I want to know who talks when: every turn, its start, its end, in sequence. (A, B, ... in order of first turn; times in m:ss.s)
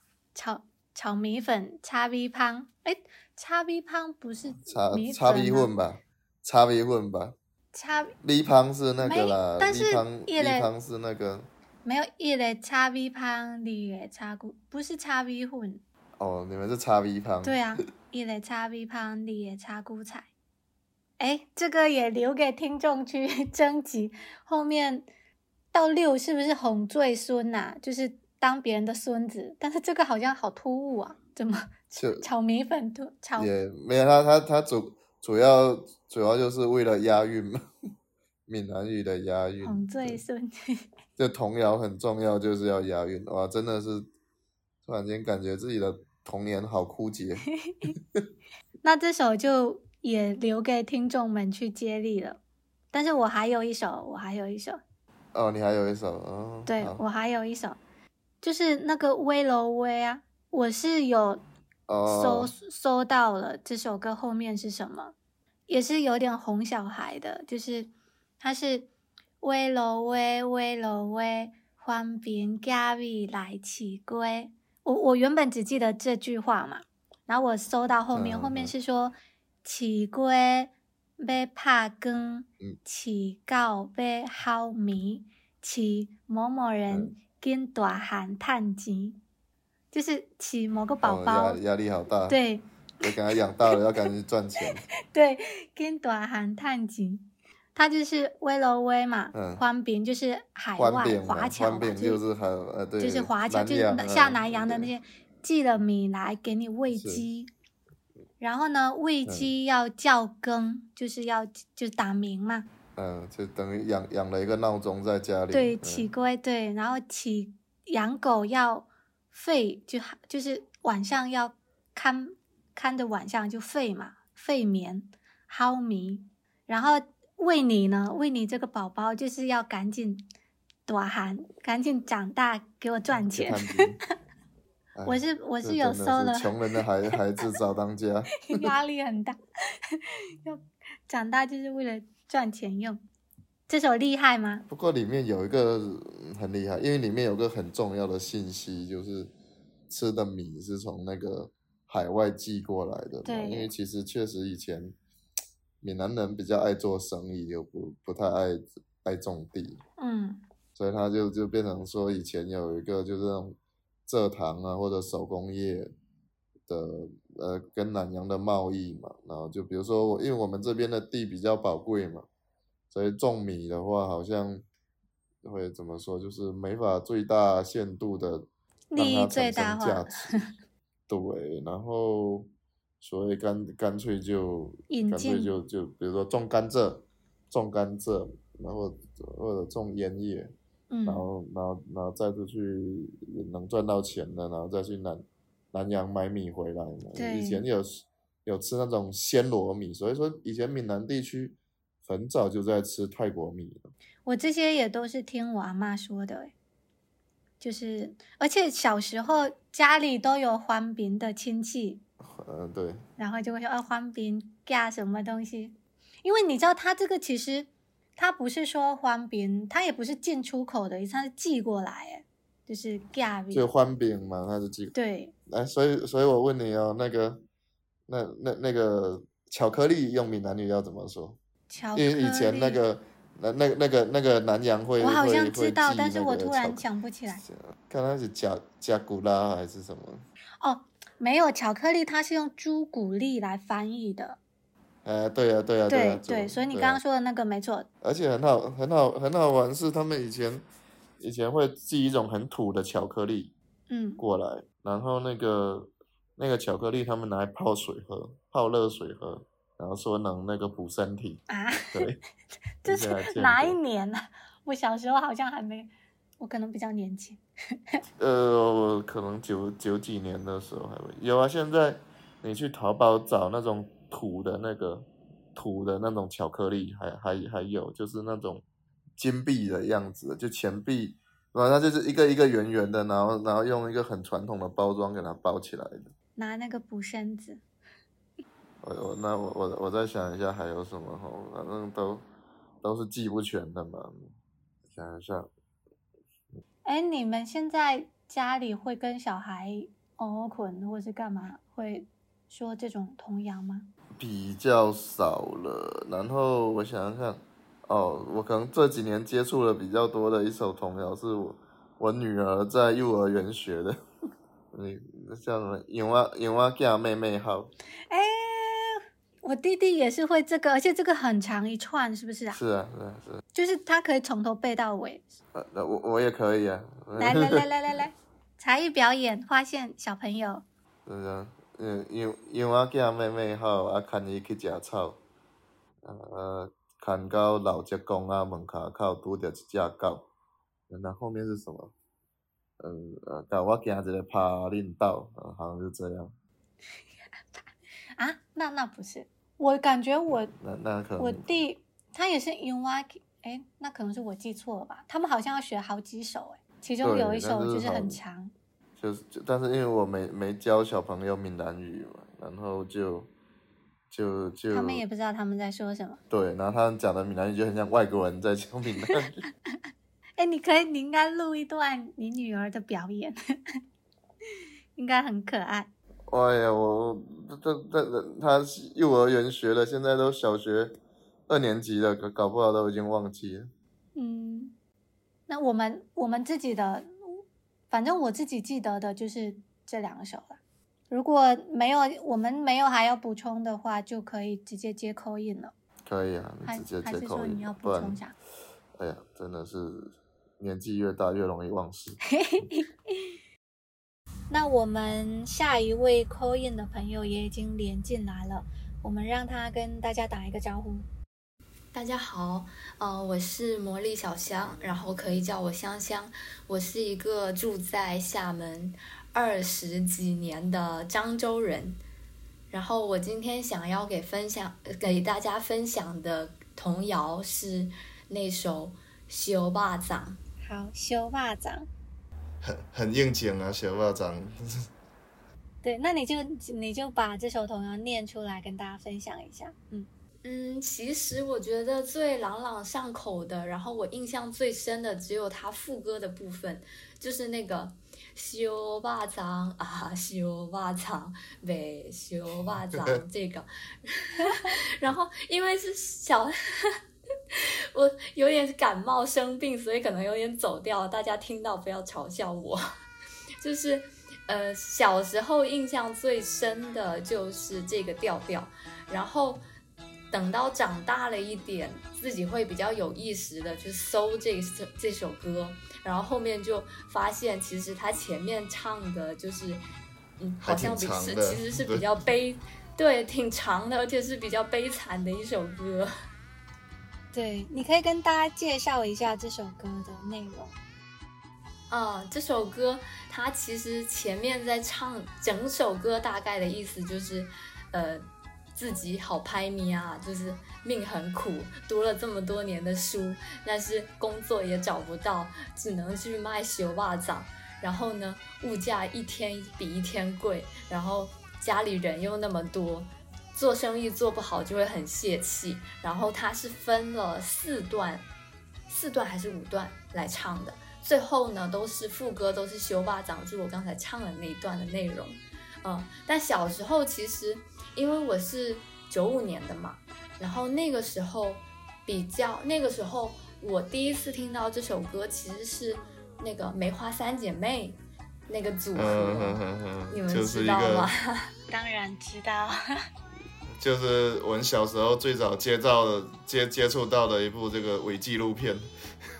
0:00.3-0:05.7 A
0:04.6-0:07.4 B
0:07.7-0:08.1 A
0:08.2-0:11.5 B
0:09.0-0:10.7 A
0:11.8-0:15.8 A
0:16.2-0:17.7 B
0:17.4-0:20.3 A
0:21.2-0:25.1 A
0:25.7-0:33.5 A
0:32.0-0:32.3 B
0:33.4-0:37.7 B
0:38.5-0:40.2 B
0:39.6-0:40.9 A
0:41.2-0:44.1 B
0:44.8-0:48.2 B
0:47.6-0:47.9 A
0:48.8-0:52.4 A
0:52.9-0:54.8 A
0:55.3-0:57.0 B
0:56.6-0:57.8 A
0:58.4-1:01.4 A
1:01.9-1:02.5 B
1:02.1-1:05.1 A
1:05.7-1:08.9 A
1:09.4-1:29.2 A
1:18.1-1:18.7 B
1:29.9-1:31.6 A
1:31.0-1:32.4 B
1:32.3-1:32.6 A
1:33.0-1:34.9 B
1:35.1-1:42.2 A
1:39.3-1:39.6 B
1:40.8-1:44.9 B
1:43.0-1:47.5 A
1:46.9-1:47.2 B
1:48.4-1:52.7 A
1:49.2-1:49.5 B
1:53.0-1:56.1 B
1:55.5-2:10.3 A
2:10.9-2:13.8 A
2:13.3-2:14.0 B
2:14.9-2:18.7 B
2:15.0-2:16.8 A
2:18.4-2:19.4 A
2:20.4-2:23.0 A
2:23.7-2:24.6 A
2:24.7-2:29.3 B
2:29.9-2:35.0 B
2:33.2-2:33.7 A
2:35.8-2:39.8 B
2:40.0-2:40.4 A
2:40.8-2:45.9 B
2:46.7-2:52.3 B
2:52.9-2:54.6 B
2:55.4-3:00.4 B
2:58.9-3:00.6 A
3:01.1-3:02.5 B
3:03.0-3:10.5 B
3:04.9-3:05.6 A
3:10.9-3:11.2 A
3:11.0-3:23.9 B
3:17.1-3:17.6 A
3:24.2-3:26.5 A
3:27.6-3:32.0 A
3:32.2-3:33.0 B
3:33.2-3:43.7 A
3:43.5-3:44.9 B
3:44.9-3:45.3 A
3:45.5-3:47.4 B
3:48.1-3:51.4 B
3:51.7-3:52.8 A
3:51.9-4:00.2 B
3:55.0-3:57.4 A
4:00.6-4:04.4 A
4:05.0-4:07.0 B
4:05.9-4:07.9 A
4:08.0-4:10.6 B
4:11.2-4:13.5 B
4:13.9-4:14.2 A
4:14.2-4:22.2 B
4:21.5-4:22.0 A
4:22.8-4:27.4 A
4:22.8-4:23.8 B
4:28.2-4:38.6 B
4:39.2-4:46.1 B
4:46.4-4:47.6 A
4:48.8-4:52.2 B
4:52.8-4:54.2 B
4:54.9-4:55.5 B
4:56.8-5:03.9 A
5:04.2-5:14.0 B
5:14.7-5:17.7 B
5:18.1-5:22.6 A
5:22.5-5:23.4 B
5:23.5-5:25.2 A
5:25.5-5:27.7 B
5:27.2-5:30.6 A
5:31.0-5:35.2 B
5:36.0-5:40.3 B
5:40.9-5:41.9 B
5:42.8-5:46.3 B
5:48.2-5:50.5 A
5:50.5-5:51.5 B
5:51.2-5:58.5 A
5:57.0-5:58.2 B
5:59.0-6:03.3 B
6:04.1-6:05.0 B
6:04.7-6:06.2 A
6:06.3-6:09.4 B
6:10.4-6:13.4 A
6:15.0-6:15.9 A
6:16.3-6:21.0 B
6:21.5-6:23.7 B
6:24.1-6:24.8 A
6:25.5-6:35.7 A
6:36.0-6:38.2 B
6:36.6-6:38.3 A
6:39.0-6:42.2 B
6:42.3-6:42.9 A
6:44.5-6:51.1 A
6:51.9-7:02.0 C
7:02.7-7:10.4 C
7:10.6-7:11.9 A
7:12.6-7:14.9 B
7:15.8-7:20.1 A
7:20.4-7:37.0 C
7:37.5-7:42.8 C
7:43.6-7:49.6 C
7:50.3-7:59.8 C
8:00.4-8:06.1 C
8:00.6-8:02.0 B
8:07.3-8:10.8 A
8:11.9-8:38.3 C
8:38.9-9:01.5 C
8:58.9-9:01.1 B
9:01.7-9:02.8 A
9:03.8-9:08.9 B